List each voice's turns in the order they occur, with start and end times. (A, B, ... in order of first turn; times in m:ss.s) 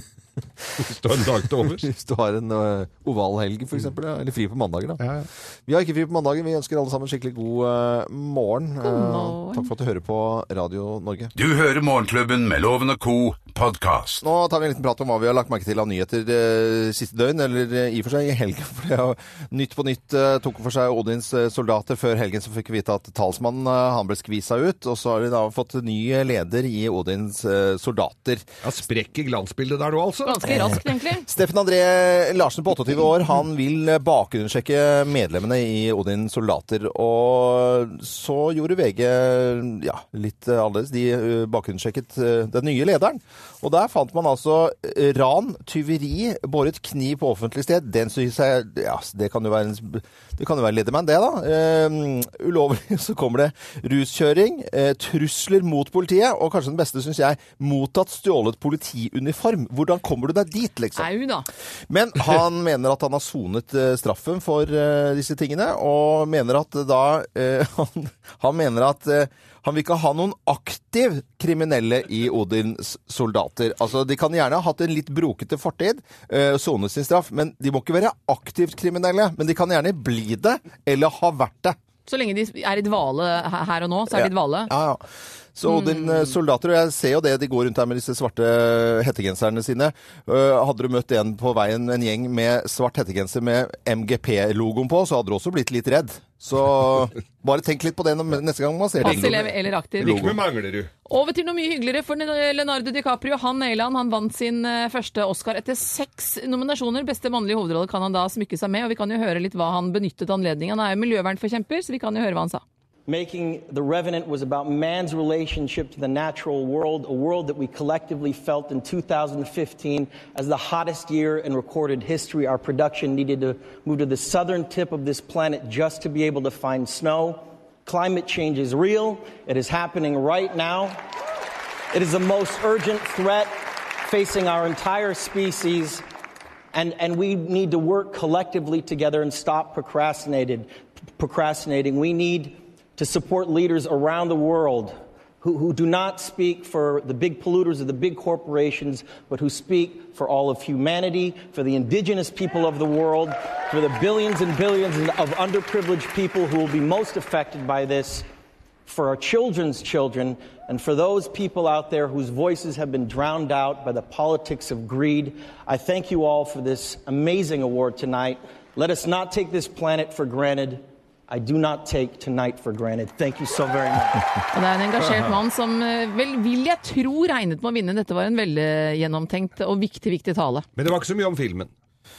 0:00.8-0:01.9 A
0:01.6-0:05.0 B
0:05.0-0:05.3 A
0:05.7-0:11.3 B
0:08.8-0:09.7 C
0:11.4-0:14.2 D
0:14.2-0:28.4 B
0:28.6-0:30.4 A
0:30.2-0:31.3 C
0:30.4-1:01.1 B
1:01.0-1:01.4 C
1:01.9-1:21.8 B
1:22.1-1:24.7 C
1:24.1-1:25.0 B
1:25.6-1:40.4 B
1:25.6-1:26.3 C
1:39.0-1:40.3 C
1:39.0-1:39.4 A
1:40.0-1:40.9 A
1:41.1-1:52.6 C
1:53.1-2:11.0 E
2:11.9-2:16.0 E
2:16.7-2:38.3 E
2:38.9-2:54.2 E
2:54.5-3:00.7 C
2:55.0-2:55.3 A
3:00.8-3:01.7 A